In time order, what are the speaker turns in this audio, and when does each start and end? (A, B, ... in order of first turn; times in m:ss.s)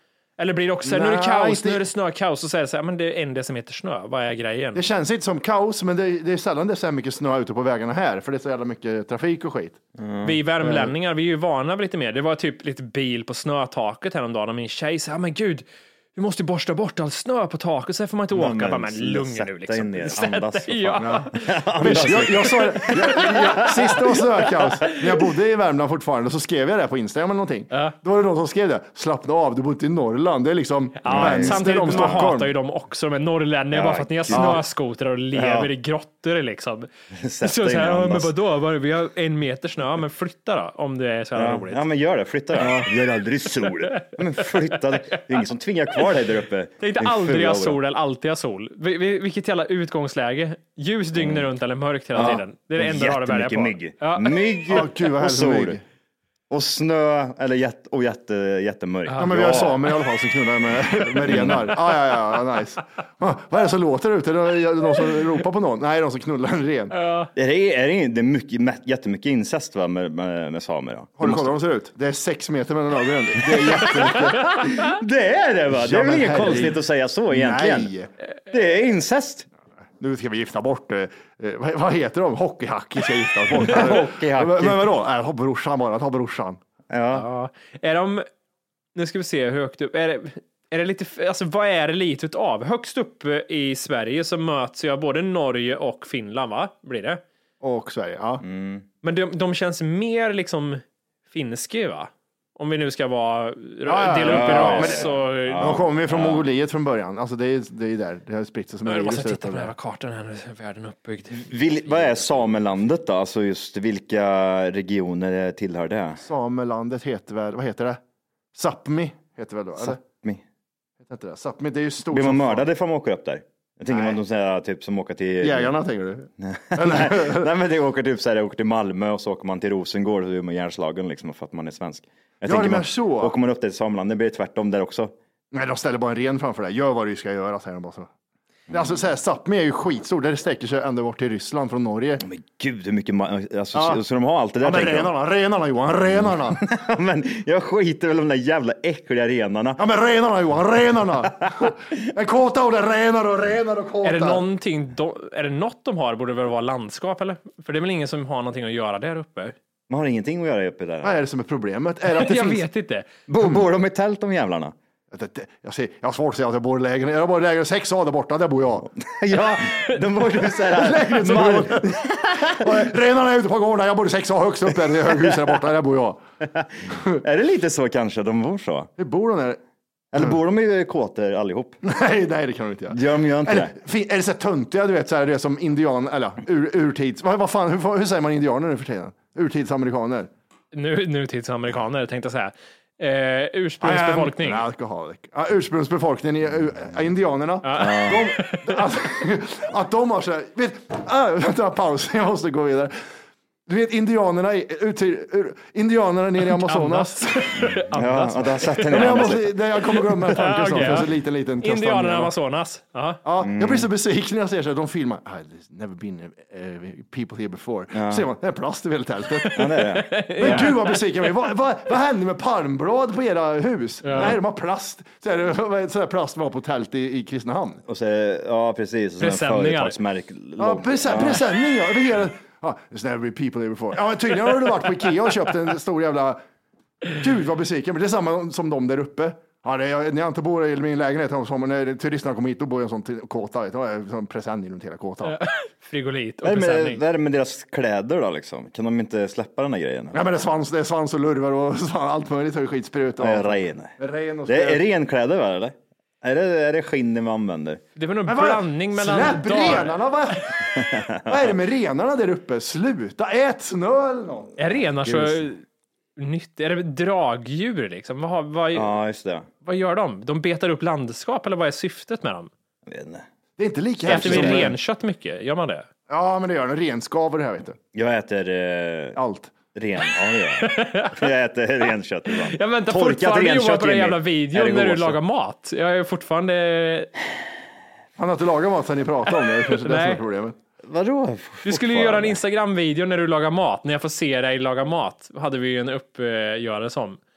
0:00.4-0:04.8 A
0:00.8-0:01.8 B
0:04.7-0:09.8 B
0:10.0-0:10.4 C
0:10.2-0:22.5 A
0:18.3-0:24.2 C
0:21.0-0:32.5 B
0:31.0-0:36.9 A
0:31.0-0:32.3 C
0:33.7-0:34.6 C
0:34.3-0:34.6 B
0:35.3-0:35.7 C
0:37.1-0:38.3 C
0:37.4-0:41.8 A
0:41.4-0:47.8 C
0:43.9-0:45.2 A
0:46.8-0:54.8 A
0:51.2-0:51.4 C
0:52.1-0:55.8 C
0:54.7-0:55.8 B
0:56.5-0:59.8 C
0:59.0-0:59.6 A
0:59.2-1:06.9 B
1:01.2-1:01.7 C
1:06.9-1:07.3 A
1:07.4-1:11.5 C
1:11.2-1:14.5 B
1:13.5-1:17.9 C
1:15.7-1:18.1 B
1:18.5-1:19.5 C
1:20.0-1:26.6 B
1:23.6-1:24.8 C
1:26.9-1:27.2 C
1:27.1-1:28.2 A
1:28.9-1:37.2 A
1:37.6-1:38.4 B
1:38.4-1:38.8 C
1:39.0-1:45.8 A
1:43.8-1:49.7 B
1:44.2-1:46.4 C
1:48.8-1:52.1 A
1:51.3-1:56.2 C
1:56.2-1:58.0 B
1:58.5-2:00.0 B
1:59.8-2:00.4 C
2:01.0-2:02.6 B
2:02.1-2:05.7 C
2:03.9-2:04.2 B
2:05.4-2:07.5 B
2:06.4-2:15.1 C
2:12.4-2:13.3 B
2:15.5-2:18.1 B
2:18.7-2:22.2 B
2:22.2-2:25.1 C
2:23.7-2:24.0 B
2:24.6-2:26.6 B
2:26.2-2:29.8 C
2:29.8-2:34.4 B
2:34.0-2:39.6 A
2:39.9-2:41.1 C
2:41.0-2:42.6 B
2:42.1-2:43.1 A
2:43.3-2:44.7 C
2:45.1-2:48.9 B
2:49.0-2:52.7 C
2:50.7-2:56.2 B
2:57.2-2:58.9 C
2:59.0-2:59.6 B
3:00.1-3:01.8 C
3:01.8-3:10.3 B
3:02.9-3:03.7 C
3:10.7-3:14.6 A
3:13.8-3:22.9 B
3:17.6-3:18.8 A
3:17.7-3:18.2 C
3:23.7-3:27.2 B
3:26.4-3:33.2 A
3:27.9-3:29.5 C
3:28.9-3:32.3 B
3:33.2-3:39.8 B
3:33.4-3:33.9 C
3:37.9-3:38.2 C
3:39.5-3:40.7 C
3:39.6-3:41.0 A
3:40.4-3:47.8 B
3:44.0-3:44.4 A
3:47.9-3:51.4 C
3:49.2-3:50.0 A
3:50.6-3:56.4 B
3:57.1-4:05.4 B
4:05.2-4:07.0 A
4:06.4-4:10.2 C
4:10.1-4:14.8 B
4:13.2-4:13.9 C
4:14.5-4:17.8 C
4:18.0-4:20.0 A
4:18.3-4:24.5 B
4:20.8-4:21.2 C
4:24.6-4:25.6 A
4:25.0-4:25.4 C
4:26.2-4:28.9 A
4:28.7-4:29.5 C
4:29.6-4:32.5 A
4:32.9-4:33.2 C
4:33.6-4:34.7 B
4:34.1-4:34.7 C
4:34.1-4:35.9 A
4:36.1-4:37.8 B
4:37.9-4:39.2 C
4:39.2-4:39.5 B
4:39.7-4:45.2 C
4:40.6-4:41.2 A
4:42.3-4:47.1 A
4:48.2-4:50.6 B
4:49.4-4:50.2 A
4:50.8-4:52.4 C
4:51.6-4:57.2 A